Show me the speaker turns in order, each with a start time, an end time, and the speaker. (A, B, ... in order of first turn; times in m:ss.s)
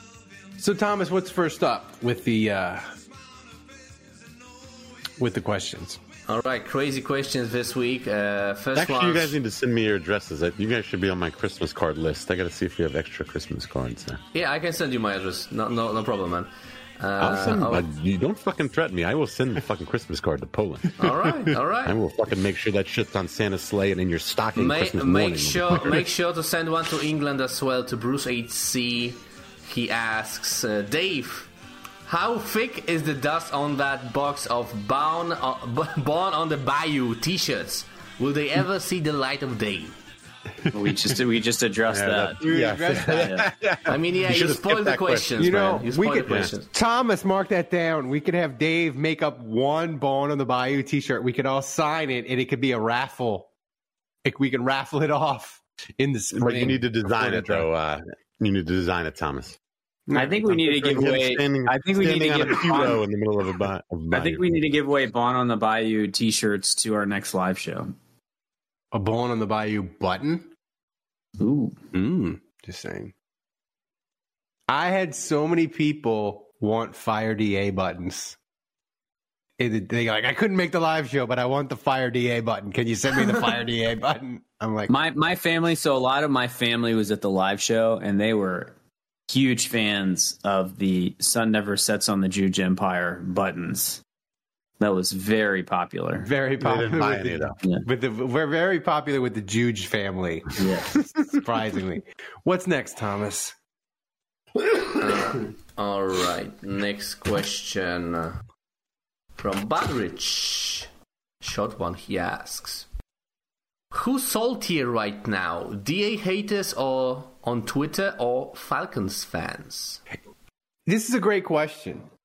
0:00.6-0:02.9 A
0:05.2-0:06.0 A
0:06.3-0:09.4 B
0:08.8-0:14.2 C
0:14.3-0:17.8 B
0:17.2-0:26.0 C
0:21.0-0:22.0 B
0:24.6-0:31.5 B
0:32.1-0:40.0 B
0:40.7-0:43.5 D
0:41.9-0:45.4 C
0:42.4-0:43.3 A
0:43.9-0:46.7 B
0:45.4-0:53.5 A
0:46.3-0:46.5 C
0:54.2-0:57.7 A
0:56.4-0:59.6 C
1:00.1-1:00.4 A
1:00.1-1:03.0 D
1:00.4-1:04.5 C
1:04.1-1:07.9 D
1:08.9-1:10.5 A
1:11.4-1:11.8 D
1:11.9-1:13.1 A
1:14.7-1:18.4 A
1:19.6-1:24.9 A
1:24.9-1:28.7 D
1:29.3-1:34.0 D
1:34.8-1:36.3 D
1:36.2-1:40.6 A
1:36.6-1:37.6 C
1:40.6-1:40.9 D
1:41.3-1:43.5 A
1:45.0-1:48.4 B
1:49.4-1:50.9 B
1:51.4-1:52.9 B
1:53.9-2:00.0 B
2:00.9-2:02.1 A